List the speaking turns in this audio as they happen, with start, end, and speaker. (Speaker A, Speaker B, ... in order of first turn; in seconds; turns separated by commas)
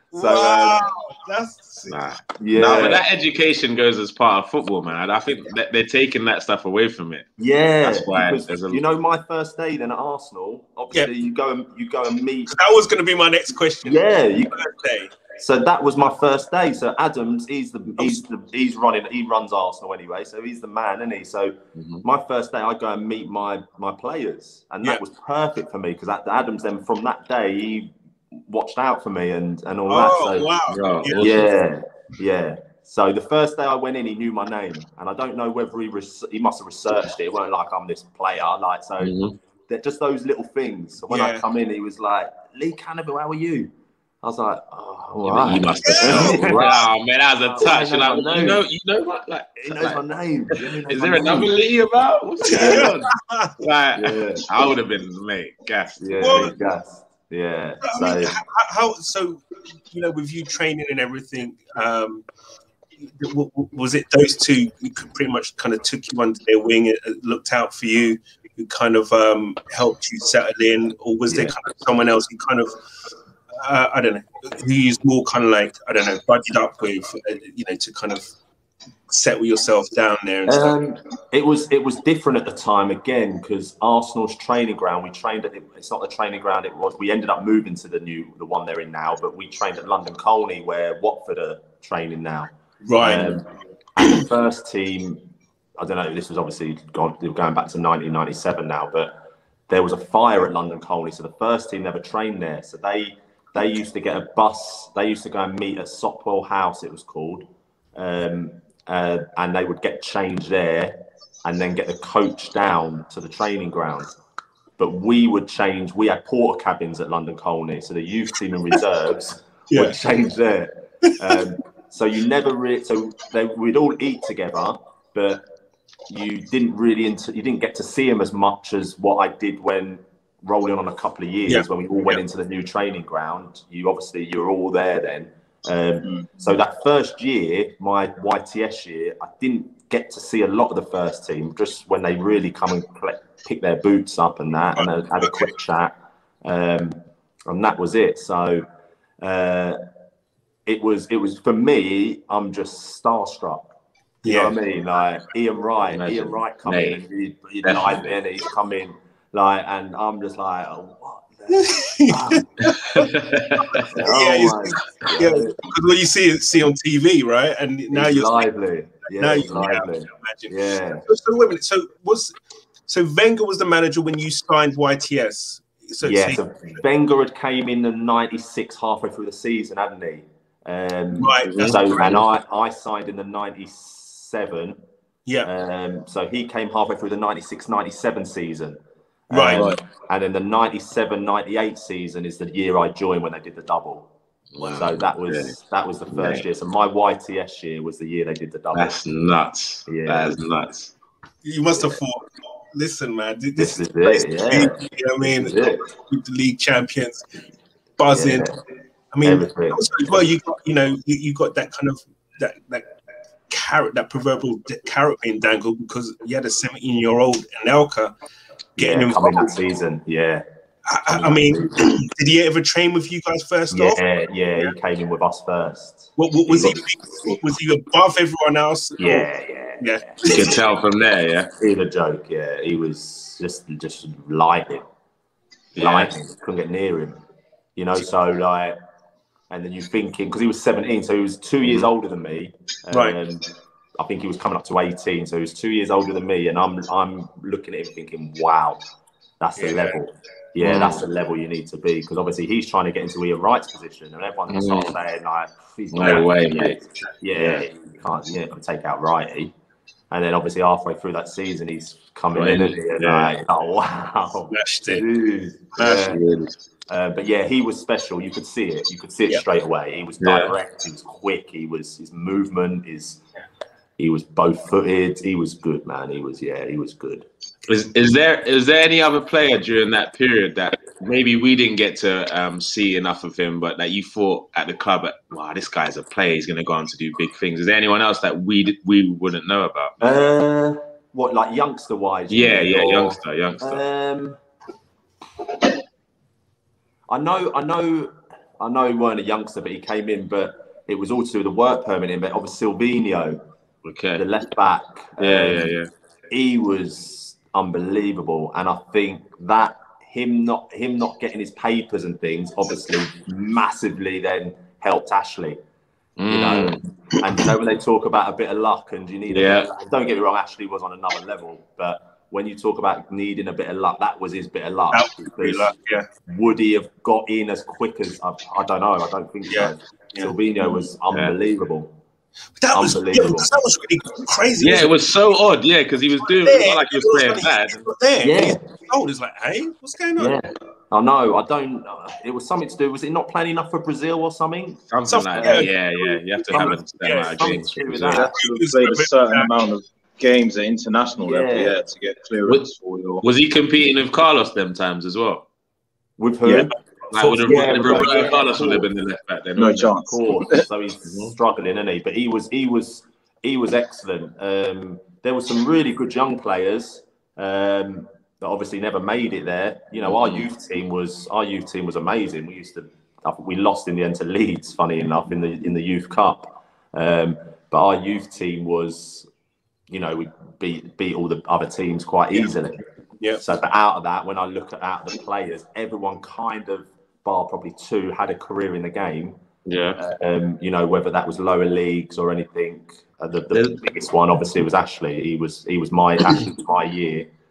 Speaker A: 0.1-2.0, Speaker B: 0.1-0.8, Speaker C: 1.9-7.2, Speaker B: 2.4-3.0, Speaker B: 7.4-12.5, Speaker C: 7.8-8.8, Speaker A: 12.5-15.2, Speaker B: 13.8-14.6, Speaker B: 15.3-30.5, Speaker C: 21.7-22.0, Speaker A: 29.9-31.4, Speaker C: 30.7-31.4, Speaker B: 31.2-39.1, Speaker C: 39.0-39.3, Speaker B: 39.7-46.8, Speaker A: 41.1-41.4, Speaker C: 45.2-50.0, Speaker A: 45.8-46.8, Speaker B: 47.4-48.6, Speaker B: 49.6-51.5, Speaker C: 50.9-56.0, Speaker A: 52.4-53.6, Speaker B: 52.5-52.9, Speaker B: 54.0-54.7, Speaker B: 56.0-58.4, Speaker A: 56.2-56.5, Speaker A: 57.8-62.2, Speaker A: 63.0-72.8, Speaker B: 71.3-71.5, Speaker A: 73.6-78.3, Speaker A: 79.1-80.8, Speaker B: 80.5-95.2, Speaker A: 92.8-93.4, Speaker B: 95.8-99.1, Speaker B: 99.7-114.1, Speaker B: 114.8-125.4, Speaker A: 119.7-120.0, Speaker A: 121.0-121.4, Speaker B: 126.1-146.9, Speaker A: 131.5-132.2, Speaker D: 136.0-136.3, Speaker A: 144.8-145.5, Speaker B: 147.5-148.7, Speaker B: 149.2-149.8, Speaker B: 150.7-153.7, Speaker A: 154.2-154.6, Speaker B: 154.2-162.5, Speaker C: 155.9-157.0, Speaker C: 157.6-158.1, Speaker A: 161.5-163.1, Speaker C: 162.7-163.9, Speaker A: 163.8-168.4, Speaker B: 163.9-165.6, Speaker B: 167.9-171.0, Speaker A: 169.1-170.5, Speaker A: 171.1-176.4, Speaker B: 176.0-184.8, Speaker A: 181.2-182.2, Speaker C: 181.5-182.2, Speaker B: 185.4-194.1, Speaker A: 189.3-189.7, Speaker D: 189.5-189.8, Speaker C: 194.5-195.6, Speaker B: 194.6-198.9, Speaker C: 196.1-196.4, Speaker C: 198.7-200.9, Speaker B: 199.9-200.3, Speaker A: 201.4-207.2, Speaker B: 201.7-202.0, Speaker B: 203.6-205.9, Speaker A: 208.0-208.5, Speaker B: 208.1-208.6, Speaker A: 209.1-212.9, Speaker B: 209.2-210.2, Speaker A: 213.5-218.1, Speaker A: 218.8-219.6, Speaker B: 218.8-220.4, Speaker A: 220.9-224.0, Speaker B: 221.1-222.0, Speaker B: 223.7-226.8, Speaker A: 226.2-229.3, Speaker B: 229.0-230.6, Speaker A: 229.8-230.6, Speaker C: 230.2-231.5, Speaker B: 231.6-234.8, Speaker C: 235.7-236.1, Speaker B: 235.8-237.2, Speaker B: 237.8-238.8, Speaker B: 239.5-248.8, Speaker A: 242.9-243.2, Speaker B: 249.4-259.5, Speaker A: 249.6-250.0, Speaker C: 250.6-251.0, Speaker C: 254.5-254.9, Speaker C: 255.9-257.6, Speaker B: 260.1-266.2, Speaker C: 262.3-263.4, Speaker A: 264.5-265.0, Speaker A: 265.8-266.2, Speaker C: 266.1-266.6, Speaker B: 266.9-273.2, Speaker C: 270.2-270.5, Speaker B: 274.0-277.3, Speaker C: 277.6-289.9, Speaker B: 290.0-294.4, Speaker C: 292.3-293.8, Speaker B: 297.1-303.4, Speaker C: 303.8-304.2, Speaker B: 304.2-305.7, Speaker C: 305.2-305.9, Speaker B: 306.3-315.6, Speaker C: 316.2-316.8, Speaker B: 316.3-325.7, Speaker C: 319.3-319.7, Speaker A: 324.9-326.1, Speaker B: 326.3-331.9, Speaker A: 329.5-330.3, Speaker A: 332.6-334.9, Speaker B: 332.7-333.5, Speaker C: 334.6-337.9, Speaker A: 336.2-340.4, Speaker B: 338.2-338.6, Speaker B: 340.2-345.7, Speaker C: 344.9-348.2, Speaker A: 345.1-347.4, Speaker B: 346.5-348.3, Speaker D: 348.1-353.2, Speaker A: 348.4-349.5, Speaker B: 351.2-351.8, Speaker C: 353.2-355.4, Speaker B: 356.2-356.7, Speaker D: 356.4-356.7, Speaker A: 356.7-358.5, Speaker C: 357.1-359.9, Speaker B: 357.4-358.9, Speaker D: 359.6-360.6, Speaker B: 360.0-379.3, Speaker C: 361.1-361.3, Speaker C: 370.1-370.5, Speaker B: 379.9-382.8, Speaker B: 383.4-389.4, Speaker C: 389.6-390.0, Speaker B: 390.0-397.3, Speaker C: 393.5-393.8